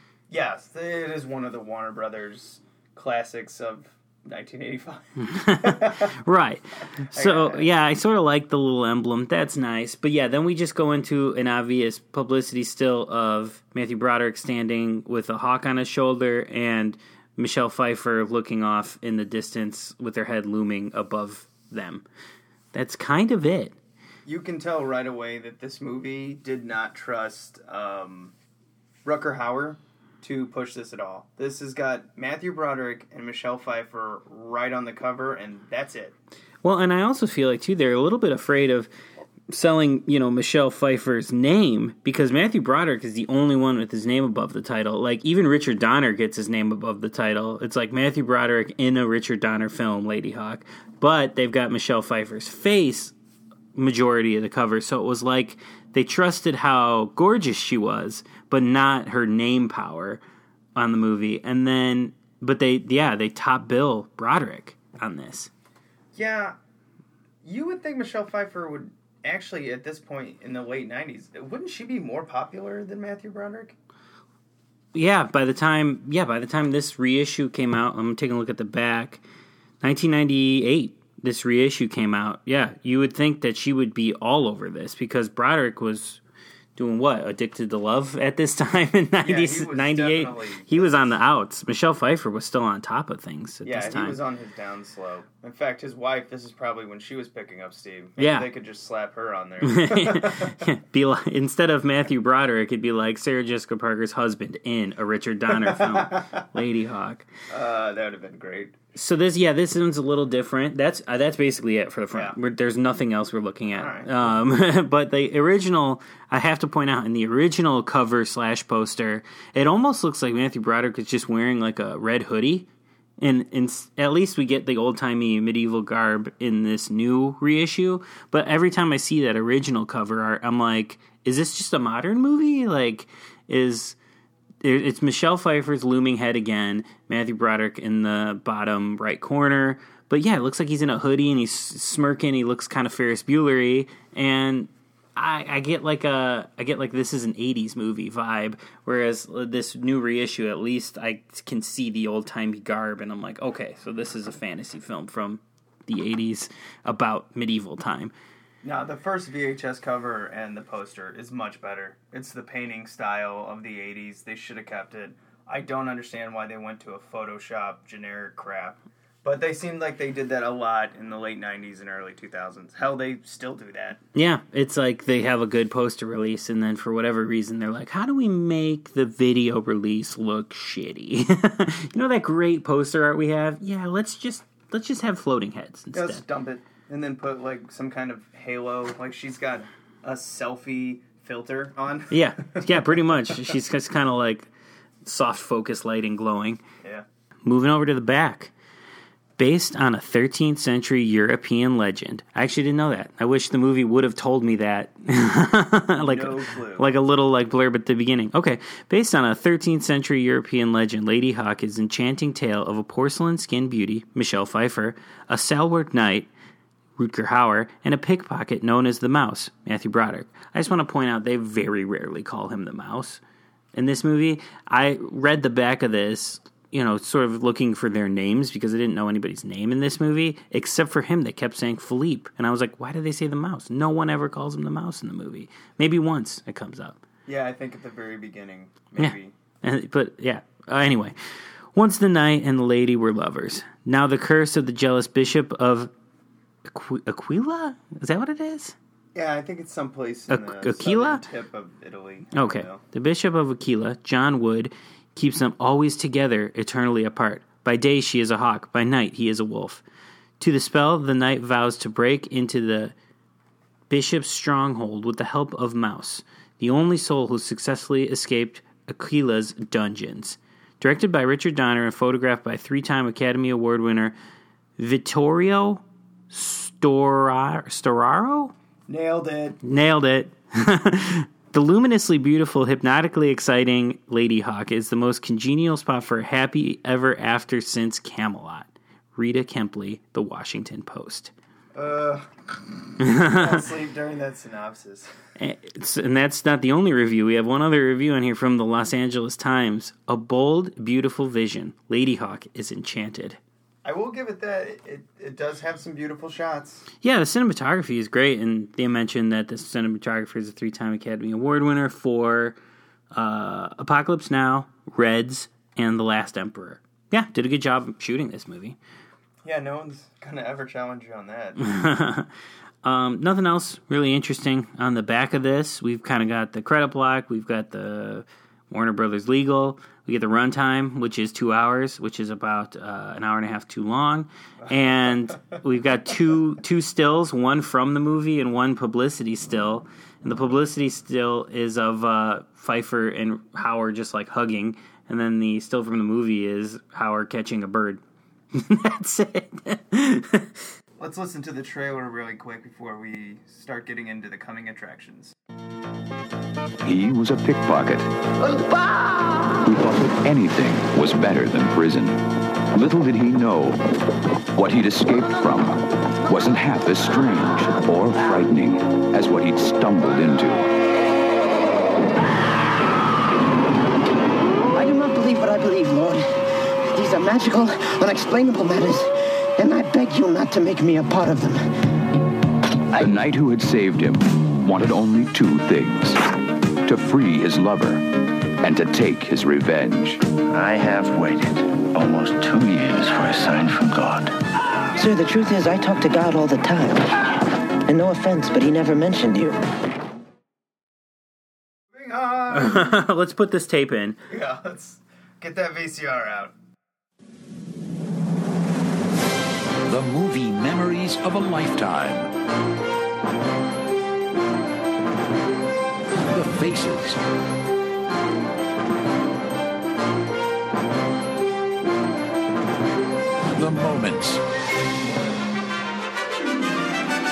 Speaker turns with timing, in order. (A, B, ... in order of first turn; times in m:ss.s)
0:00.3-0:06.1 A
0:05.2-0:22.0 B
0:07.1-0:07.7 A
0:22.7-0:23.8 B
0:24.2-0:28.3 A
0:29.0-0:36.1 A
0:36.6-0:38.9 B
0:39.5-0:53.1 B
0:53.7-1:00.2 B
1:00.8-1:05.5 B
1:06.1-1:06.5 A
1:07.4-1:13.7 A
1:14.9-1:19.2 B
1:19.8-1:26.2 B
1:26.8-1:34.2 B
1:29.2-1:31.2 A
1:33.6-1:40.6 A
1:38.2-1:38.5 B
1:39.6-1:47.3 B
1:45.5-1:46.4 A
1:47.5-1:48.8 A
1:48.9-2:02.7 B
1:53.7-1:54.3 A
2:03.2-2:14.0 B
2:14.6-2:38.1 B
2:38.6-2:54.0 A
2:54.1-3:06.2 B
3:05.9-3:12.6 A
3:12.1-3:14.5 B
3:15.0-3:16.6 B
3:17.4-3:18.5 B
3:19.4-3:36.3 B
3:26.0-3:26.8 A
3:37.0-3:43.2 B
3:43.7-3:57.0 B
3:57.3-3:59.3 A
3:59.0-4:01.2 B
4:01.7-4:05.9 B
4:06.6-4:08.7 B
4:09.1-4:12.8 A
4:10.3-4:11.2 B
4:12.3-4:19.8 B
4:20.4-4:22.9 B
4:23.9-4:34.1 B
4:34.8-4:38.5 B
4:38.9-4:39.6 A
4:39.6-4:51.3 B
4:51.7-4:55.1 A
4:53.0-4:53.6 B
4:55.4-5:03.4 B
5:03.8-5:06.8 A
5:07.0-5:12.6 B
5:13.1-5:18.8 B
5:19.4-5:21.7 A
5:21.6-5:22.3 B
5:22.8-5:48.0 B
5:48.5-5:50.6 B
5:51.0-5:55.3 A
5:56.8-5:58.1 C
5:59.6-6:03.8 C
6:04.5-6:10.7 C
6:14.6-6:21.7 D
6:22.9-6:26.2 C
6:26.8-6:28.1 C
6:28.6-6:30.2 C
6:30.5-6:34.4 E
6:35.0-6:39.6 D
6:41.9-6:43.0 A
6:42.5-6:44.2 B
6:44.3-6:46.5 A
6:49.9-6:52.3 F
6:56.3-6:57.2 F
7:03.5-7:04.4 F